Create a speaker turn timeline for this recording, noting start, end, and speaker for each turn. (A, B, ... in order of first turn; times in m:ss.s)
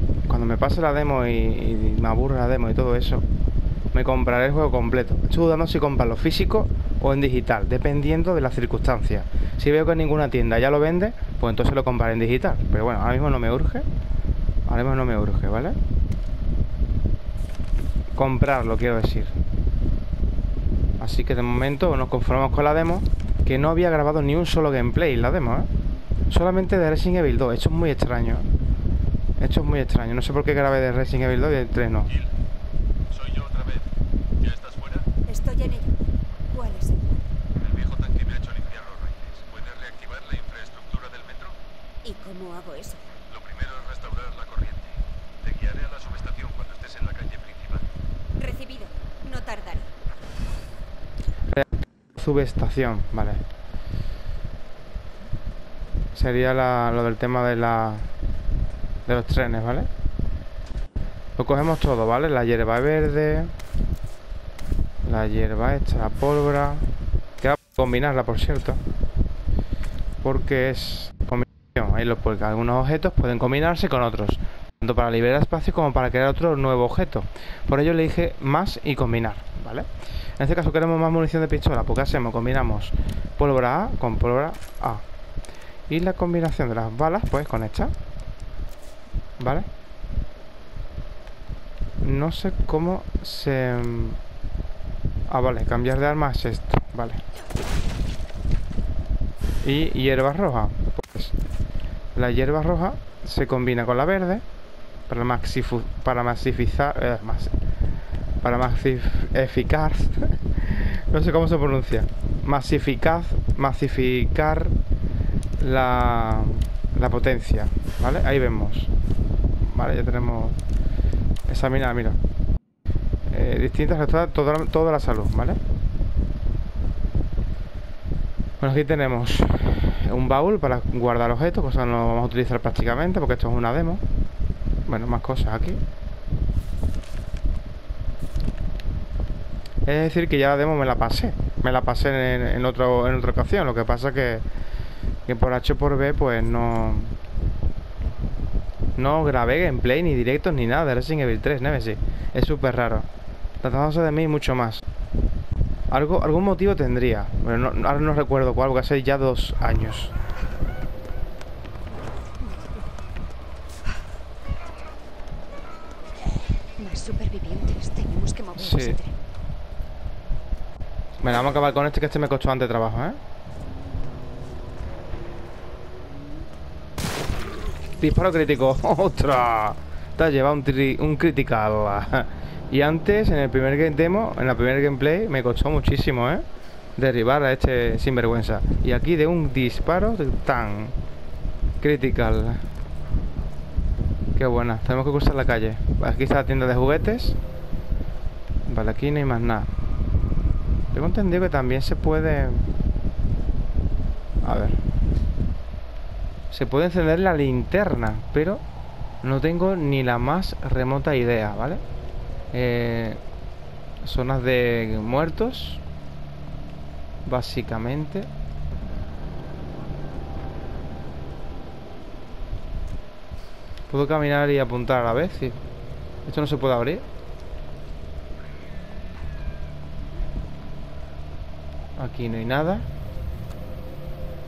0:00.3-0:03.2 A
0:03.9-0:13.9 A
0:14.7-0:15.8 A
0:18.2-0:19.3 A
0:21.0-0:25.7 A
0:26.3-0:28.5 A
0:29.4-0:32.1 A
0:33.1-0:35.1 B
0:35.3-0:36.0 C
0:36.5-0:37.2 C
0:37.6-0:41.6 B
0:42.0-0:43.0 C
0:43.3-0:47.9 B
0:48.4-0:49.9 C
0:52.2-0:53.4 A
0:56.2-0:58.1 A
0:59.1-0:59.9 A
1:01.4-1:03.5 A
1:05.0-1:08.8 A
1:10.2-1:25.0 A
1:25.9-1:27.9 A
1:29.4-1:29.7 A
1:32.0-1:34.2 A
1:35.3-1:37.2 A
1:39.6-1:41.3 A
1:42.2-1:44.4 A
1:45.1-1:47.6 A
1:48.4-1:54.8 A
1:55.6-1:58.9 A
1:59.6-2:00.6 A
2:01.5-2:02.2 A
2:03.3-2:05.6 A
2:08.6-2:14.0 A
2:14.9-2:15.8 A
2:19.8-2:24.4 A
2:25.3-2:27.2 A
2:29.0-2:33.1 A
2:33.6-2:34.8 A
2:35.9-2:40.1 A
2:46.8-2:49.1 C
2:48.6-2:49.0 A
2:51.2-2:53.2 A
2:58.0-3:06.4 A
3:07.0-3:11.0 A
3:11.8-3:12.7 A
3:14.4-3:17.4 A
3:18.6-3:19.7 A
3:20.9-3:22.7 A
3:24.4-3:24.9 A
3:26.5-3:28.6 A
3:29.2-3:31.8 A
3:32.5-3:33.2 A
3:34.0-3:35.8 A
3:37.2-3:38.3 A
3:43.9-3:45.6 A
3:46.2-3:47.0 A
3:52.0-3:52.9 A